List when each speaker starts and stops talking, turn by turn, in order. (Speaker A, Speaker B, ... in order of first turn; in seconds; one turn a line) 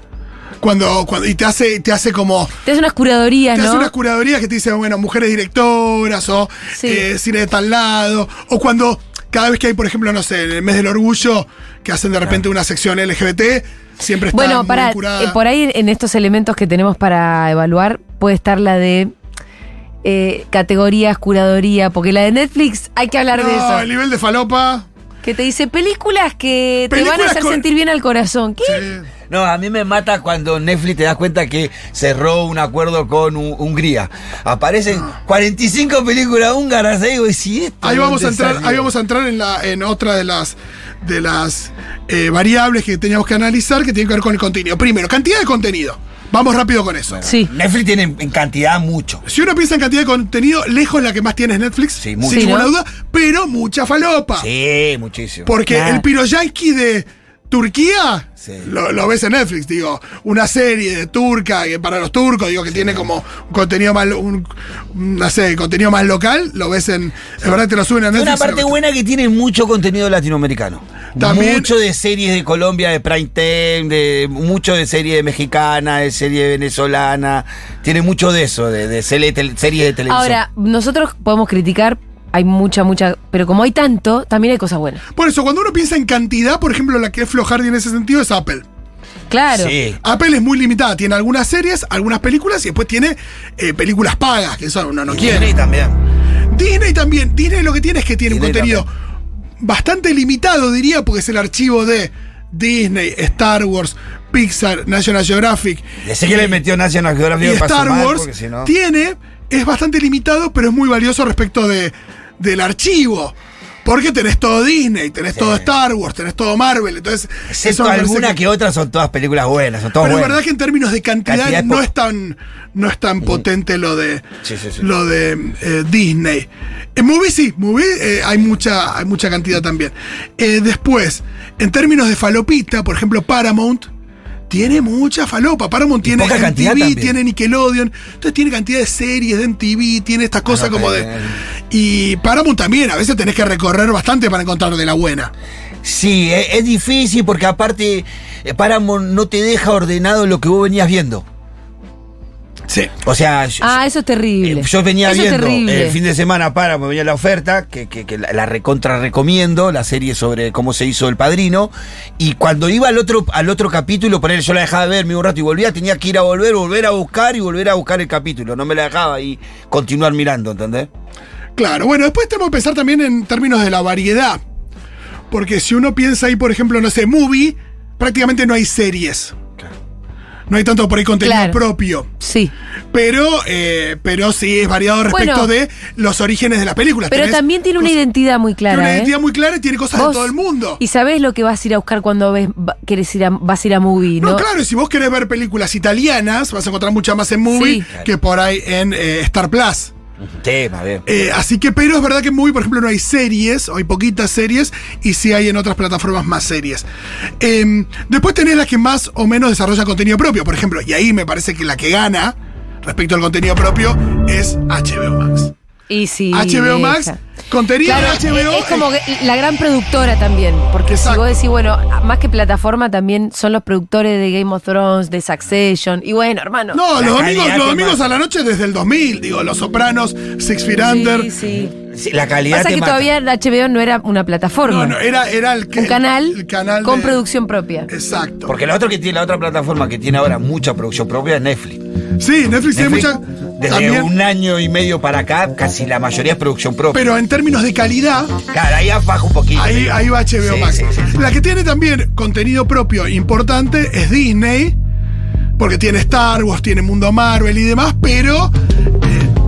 Speaker A: 0.6-2.5
Speaker B: 2.6-3.9
Speaker A: 3.5-15.4
Speaker B: 6.8-7.0
Speaker B: 14.3-19.1
Speaker B: 20.0-23.9
Speaker A: 23.3-24.9
Speaker B: 25.2-28.8
Speaker A: 26.9-27.7
Speaker A: 28.6-29.1
Speaker C: 29.3-38.9
Speaker A: 37.8-47.2
Speaker C: 47.1-49.2
Speaker B: 47.2-47.5
Speaker A: 49.3-54.5
Speaker C: 52.0-52.5
Speaker B: 52.3-52.7
Speaker C: 54.4-55.5
Speaker A: 55.5-68.8
Speaker B: 55.7-56.0
Speaker C: 58.4-58.7
Speaker C: 62.7-63.1
Speaker C: 68.1-80.4
Speaker A: 71.2-71.7
Speaker B: 80.1-85.0
Speaker A: 85.2-88.7
Speaker B: 89.3-89.8
Speaker C: 89.5-90.0
Speaker A: 90.0-95.6
Speaker C: 95.1-96.0
Speaker A: 96.5-98.9
Speaker C: 98.3-98.9
Speaker A: 99.6-106.6
Speaker C: 106.0-108.7
Speaker A: 107.4-118.4
Speaker C: 115.3-115.7
Speaker C: 117.5-120.4
Speaker A: 120.0-124.3
Speaker C: 121.2-121.9
Speaker C: 124.4-124.9
Speaker A: 124.8-133.9
Speaker A: 134.5-141.1
Speaker C: 136.0-137.2
Speaker C: 140.5-141.4
Speaker A: 141.7-145.3
Speaker C: 145.8-151.2
Speaker A: 152.7-152.9
Speaker C: 153.0-153.8
Speaker B: 153.6-156.0
Speaker C: 154.4-170.9
Speaker A: 171.6-174.4
Speaker A: 175.3-179.4
Speaker A: 180.5-182.1
Speaker B: 181.2-181.6
Speaker B: 182.2-182.5
Speaker A: 182.9-188.0
Speaker B: 185.1-185.5
Speaker B: 187.1-189.1
Speaker A: 188.7-190.8
Speaker B: 189.9-194.5
Speaker A: 194.2-199.9
Speaker B: 197.5-197.8
Speaker C: 200.3-201.0
Speaker A: 201.1-206.9
Speaker A: 207.4-215.5
Speaker B: 215.9-217.2
Speaker A: 216.3-218.9
Speaker B: 217.8-226.8
Speaker A: 220.9-221.3
Speaker A: 226.7-231.3
Speaker C: 226.9-228.2
Speaker B: 230.8-231.8
Speaker C: 231.9-233.1
Speaker B: 232.5-235.0
Speaker A: 234.7-237.2
Speaker B: 235.7-237.9
Speaker A: 237.9-238.6
Speaker C: 238.5-241.8
Speaker A: 242.2-244.1
Speaker C: 242.7-247.1
Speaker A: 246.9-248.4
Speaker C: 248.5-251.2
Speaker A: 249.5-254.8
Speaker A: 255.6-259.3